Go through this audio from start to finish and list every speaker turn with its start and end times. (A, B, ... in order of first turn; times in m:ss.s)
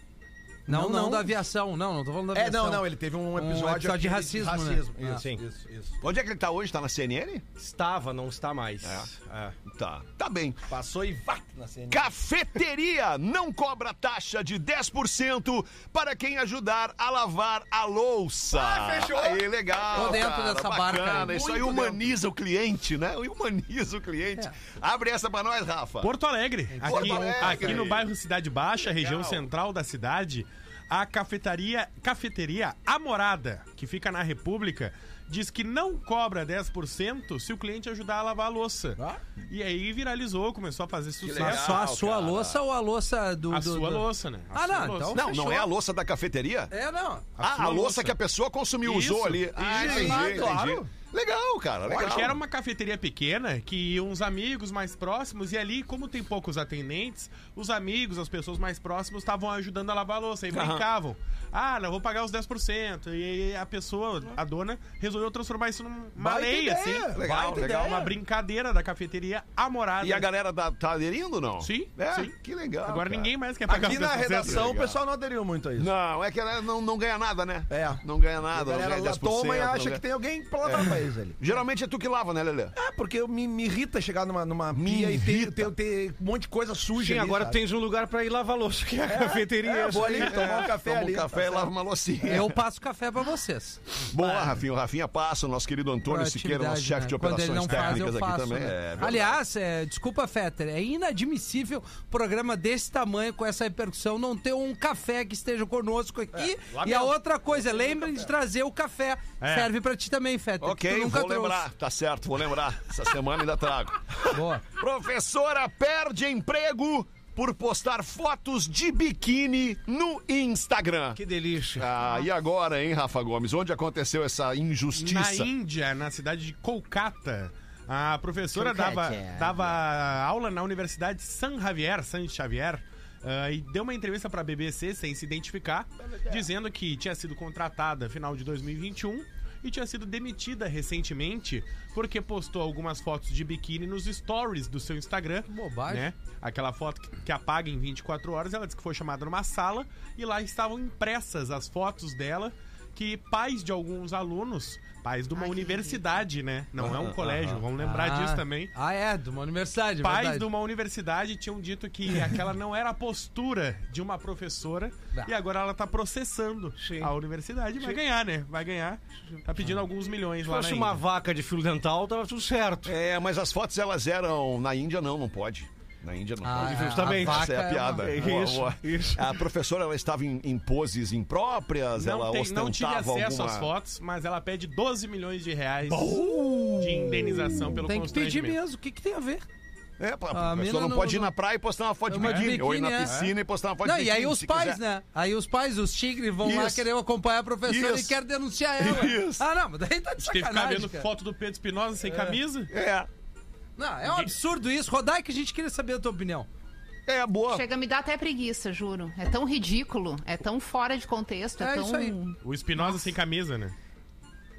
0:00.7-0:01.4 A
0:00.7-0:05.2 B
0:02.3-0:06.0 A
0:05.2-0:05.4 C
0:06.0-0:07.4 D
0:07.6-0:09.6 C
0:08.8-0:09.1 D
0:09.6-0:10.6 D
0:10.7-0:12.1 A
0:11.9-0:26.1 D
0:18.5-0:20.3 A
0:19.9-0:21.7 B
0:21.1-0:22.0 A
0:26.0-0:41.8 E
0:26.7-0:27.8 B
0:26.9-0:28.1 D
0:29.0-0:29.4 D
0:41.2-0:42.6 D
0:41.4-0:45.6 B
0:43.5-0:45.4 E
0:45.1-0:46.7 D
0:46.7-0:47.3 B
0:47.4-0:48.2 E
0:47.4-0:52.4 D
0:48.8-0:50.4 E
0:49.6-0:50.9 A
0:49.8-0:50.8 B
0:51.9-1:10.3 E
1:00.5-1:00.9 D
1:06.2-1:08.2 A
1:07.2-1:08.0 D
1:10.0-1:13.9 D
1:11.6-1:14.7 E
1:13.7-1:15.9 A
1:14.4-1:15.0 D
1:15.8-1:20.0 D
1:17.7-1:21.4 A
1:20.6-1:22.8 D
1:22.8-1:27.6 A
1:24.7-1:25.7 D
1:27.0-1:30.6 C
1:29.1-1:31.7 A
1:30.1-1:32.6 D
1:32.2-1:34.5 B
1:34.1-1:39.4 D
1:36.1-1:51.7 B
1:37.7-1:38.0 E
1:46.7-1:47.2 D
1:49.4-1:49.7 E
1:50.6-2:01.2 D
1:54.3-1:54.6 B
2:01.2-2:01.9 C
2:01.8-2:05.5 D
2:05.0-2:38.7 E
2:08.5-2:09.7 C
2:25.5-2:26.1 B
2:35.4-2:36.0 F
2:36.8-2:37.6 D
2:37.8-2:40.5 B
2:40.0-2:51.0 E
2:46.8-2:47.1 C
2:50.4-2:52.9 C
2:52.8-3:03.7 D
2:56.4-2:58.1 B
2:56.6-2:59.2 C
3:02.0-3:08.6 E
3:06.0-3:06.9 C
3:07.8-3:09.5 B
3:10.0-3:14.8 D
3:10.3-3:11.3 B
3:12.1-3:13.2 B
3:12.2-3:13.3 E
3:13.8-3:21.1 B
3:16.4-3:16.9 D
3:17.7-3:18.2 D
3:18.8-3:19.4 D
3:20.2-3:22.7 E
3:22.1-3:22.4 B
3:22.7-3:23.1 D
3:23.8-3:26.5 B
3:24.0-3:24.3 E
3:27.1-3:27.6 D
3:27.5-3:33.0 F
3:31.6-3:32.2 B
3:32.4-3:33.8 E